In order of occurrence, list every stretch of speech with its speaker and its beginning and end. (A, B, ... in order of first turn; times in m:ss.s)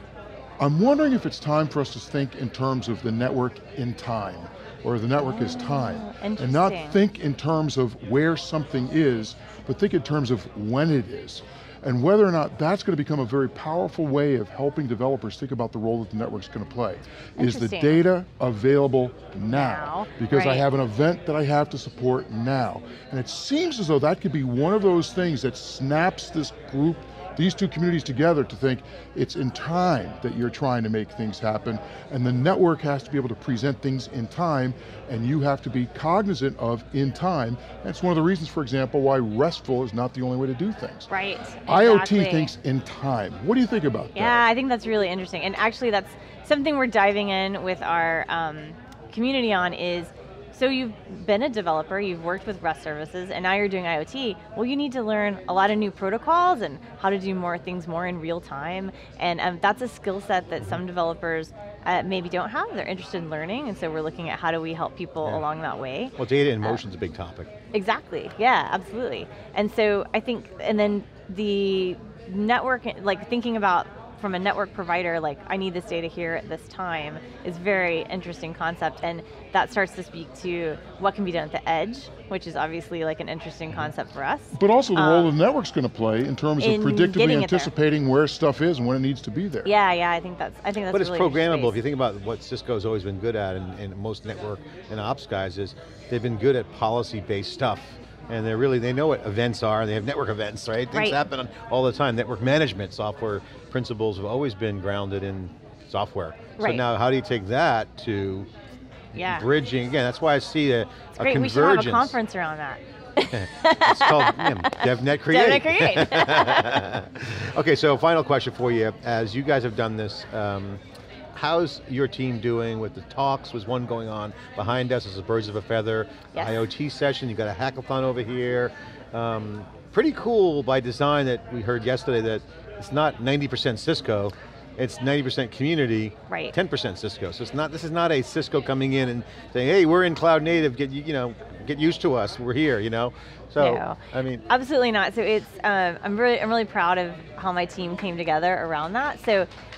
0:00.6-0:41.1 A
0:05.2-0:07.0 B
0:17.4-0:18.0 B
0:19.5-0:20.6 B
0:41.1-0:42.5 B
0:41.7-0:44.4 A
0:44.2-1:06.8 B
1:06.2-1:07.5 C
1:07.7-1:25.3 B
1:24.5-1:29.7 A
1:26.6-1:27.7 B
1:29.6-1:31.8 B
1:30.9-1:48.5 C
1:40.9-1:41.2 B
1:46.6-1:46.8 B
1:49.1-1:52.1 C
1:49.2-1:49.5 B
1:51.2-1:56.8 B
1:53.3-2:00.8 C
2:01.3-2:24.4 C
2:06.3-2:06.6 B
2:23.6-2:29.5 B